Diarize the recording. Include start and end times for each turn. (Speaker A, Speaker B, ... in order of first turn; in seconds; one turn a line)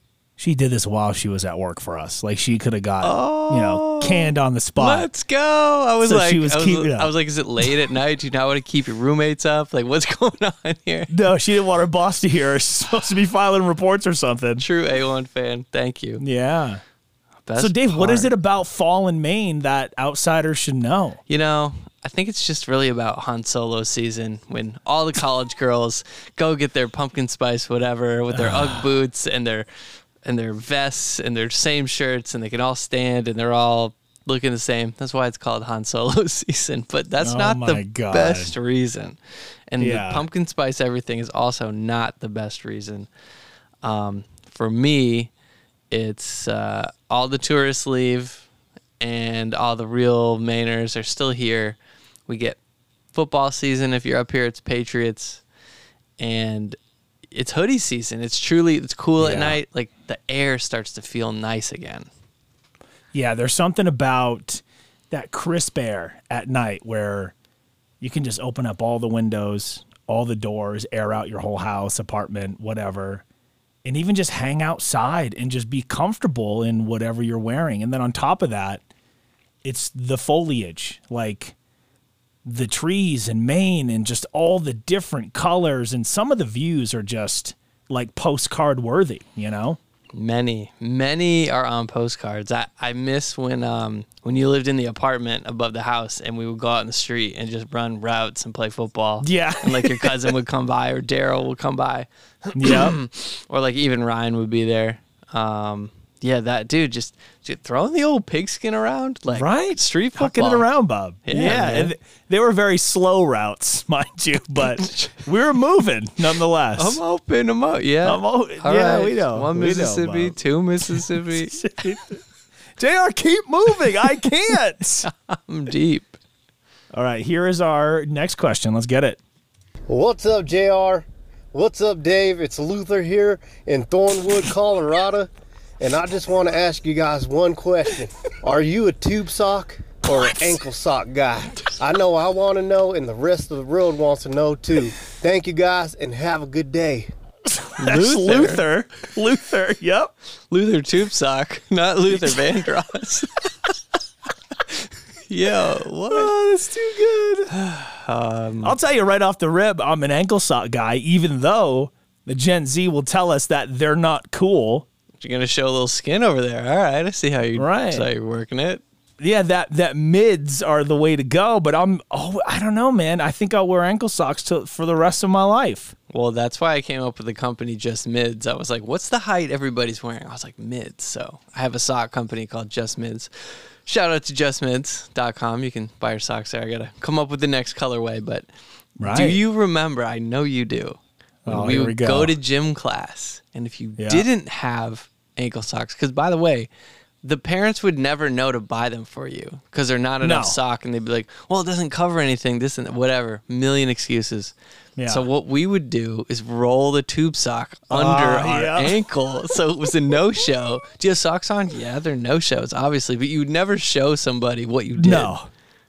Speaker A: 0.4-5.1
Speaker B: 3.0-11.1
Speaker A: 6.0-7.1
Speaker A: 11.1-14.6
Speaker B: 14.6-16.2
Speaker A: 16.2-16.8
Speaker B: 17.4-18.3
Speaker A: 17.6-21.2
Speaker B: 21.3-29.6
Speaker A: 28.3-28.9
Speaker B: 30.2-43.1
Speaker A: 37.2-38.5
Speaker A: 39.8-40.2
Speaker B: 43.8-45.3
Speaker B: 45.9-48.5
Speaker B: 49.0-52.6
Speaker B: 53.1-55.4
Speaker B: 56.2-56.8
Speaker B: 57.3-62.1
Speaker A: 59.2-59.6
Speaker A: 63.1-67.3
Speaker A: 68.0-73.2
Speaker A: 73.8-78.8
Speaker A: 79.6-81.5
Speaker A: 82.4-89.8
Speaker B: 90.1-110.7
Speaker A: 99.2-100.3
Speaker A: 102.5-103.0
Speaker A: 109.3-117.0
Speaker B: 111.2-111.9
Speaker B: 114.9-115.1
Speaker B: 116.8-121.7
Speaker A: 118.0-120.3
Speaker A: 120.9-122.2
Speaker A: 122.8-125.1
Speaker B: 125.0-126.2
Speaker A: 126.9-129.2
Speaker C: 129.9-135.3
Speaker C: 135.8-147.1
Speaker A: 147.5-150.1
Speaker B: 147.8-148.6
Speaker B: 150.5-153.5
Speaker B: 155.3-156.3
Speaker A: 156.1-157.5
Speaker B: 157.5-158.7
Speaker A: 158.6-164.8
Speaker B: 165.2-168.8
Speaker A: 167.5-168.1
Speaker A: 169.2-175.9
Speaker B: 176.1-188.5
Speaker A: 189.0-189.4
Speaker B: 189.0-196.7
Speaker A: 191.4-192.3
Speaker A: 194.0-194.2
Speaker B: 197.2-204.5
Speaker A: 200.2-200.6
Speaker A: 205.0-205.3
Speaker B: 205.1-215.3
Speaker A: 207.9-209.0
Speaker A: 214.9-215.5